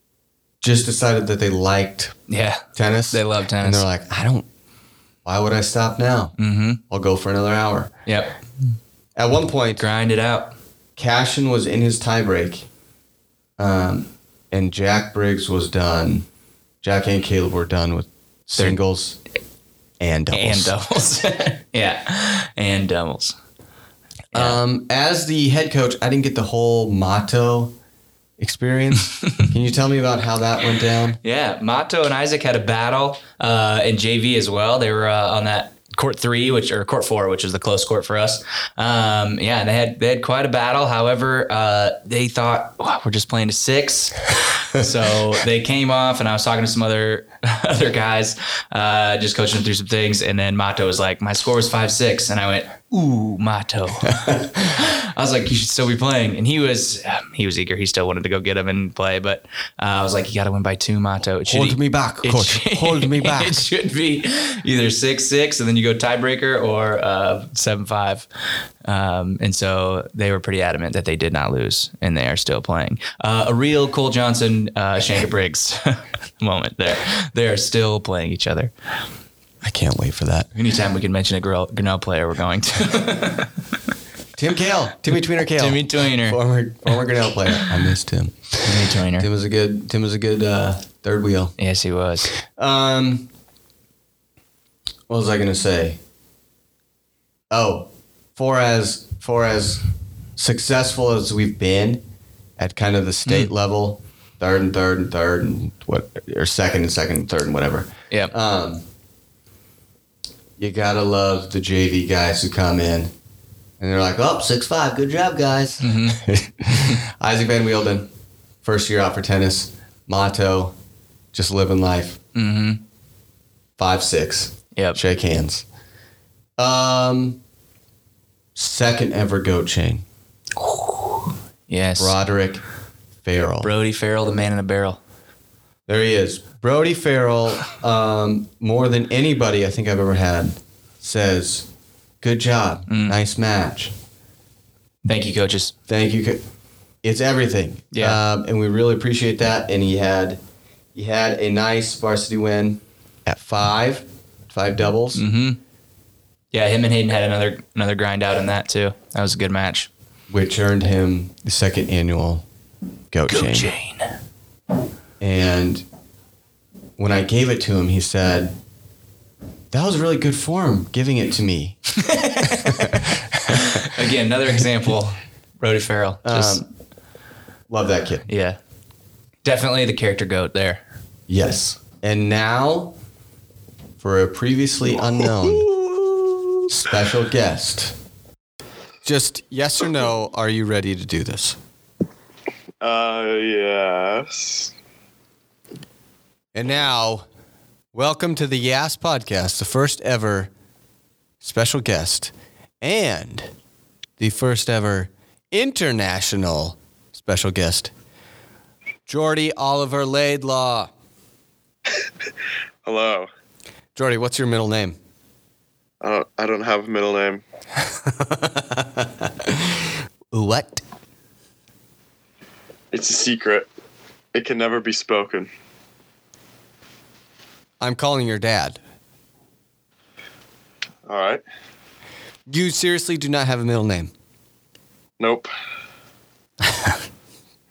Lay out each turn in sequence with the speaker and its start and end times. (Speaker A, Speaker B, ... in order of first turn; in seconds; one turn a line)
Speaker A: 0.6-2.1
Speaker B: 2.3-3.8
Speaker A: 2.7-4.5
Speaker A: 5.2-6.3
Speaker B: 6.4-6.8
Speaker A: 6.9-7.9
Speaker B: 8.1-8.3
Speaker A: 9.2-9.8
Speaker B: 9.8-10.5
Speaker A: 11.0-12.7
Speaker A: 13.6-16.3
Speaker A: 16.8-19.2
Speaker A: 20.0-20.7
Speaker B: 20.3-23.4
Speaker B: 24.3-24.6
Speaker A: 24.3-27.7
Speaker A: 28.4-31.2
Speaker B: 31.2-68.3
Speaker A: 54.1-54.5
Speaker A: 61.5-63.6
Speaker B: 68.8-78.7
Speaker A: 79.6-80.5
Speaker B: 80.5-83.6
Speaker A: 84.3-91.5
Speaker B: 85.5-86.4
Speaker B: 88.6-89.3
Speaker B: 91.6-92.3
Speaker A: 92.5-93.3
Speaker A: 95.1-96.0
Speaker A: 97.5-99.8
Speaker A: 100.4-102.0
Speaker A: 102.6-108.8
Speaker B: 103.2-103.5
Speaker A: 110.6-113.1
Speaker A: 113.8-118.1
Speaker B: 115.8-116.3
Speaker A: 118.6-120.7
Speaker A: 121.3-122.2
Speaker B: 122.3-122.8
Speaker A: 123.8-125.6
Speaker B: 124.7-125.0
Speaker A: 126.6-127.4
Speaker A: 128.5-130.0
Speaker B: 130.6-132.2
Speaker A: 132.0-132.6
Speaker A: 133.2-133.7
Speaker B: 133.6-135.0
Speaker A: 135.9-141.7
Speaker A: 142.2-143.9
Speaker B: 142.9-143.2
Speaker B: 145.0-145.7
Speaker A: 145.9-146.4
Speaker A: 147.0-150.4
Speaker B: 147.9-148.2
Speaker A: 150.9-155.2
Speaker B: 155.1-155.6
Speaker B: 156.5-159.9
Speaker A: 160.3-162.4
Speaker A: 163.1-163.7
Speaker B: 163.3-164.1
Speaker A: 165.2-165.8
Speaker A: 167.0-168.6
Speaker A: 169.7-171.8
Speaker B: 171.9-176.7
Speaker A: 172.4-173.9
Speaker A: 176.2-176.7
Speaker A: 177.7-178.2
Speaker B: 178.3-178.6
Speaker B: 179.4-180.8
Speaker A: 181.3-182.9
Speaker A: 184.0-188.0
Speaker A: 189.0-191.6
Speaker C: 192.8-194.7
Speaker A: 196.5-197.2
Speaker A: 197.9-200.5
Speaker A: 201.4-203.5
Speaker A: 204.2-207.9
Speaker A: 209.1-210.9
Speaker C: 212.8-213.3
Speaker A: 213.9-215.0
Speaker C: 216.0-217.4
Speaker A: 218.0-220.8
Speaker C: 222.9-223.7
Speaker C: 224.3-225.5
Speaker A: 227.8-228.8
Speaker C: 231.1-231.4
Speaker A: 232.5-234.1
Speaker C: 235.2-235.5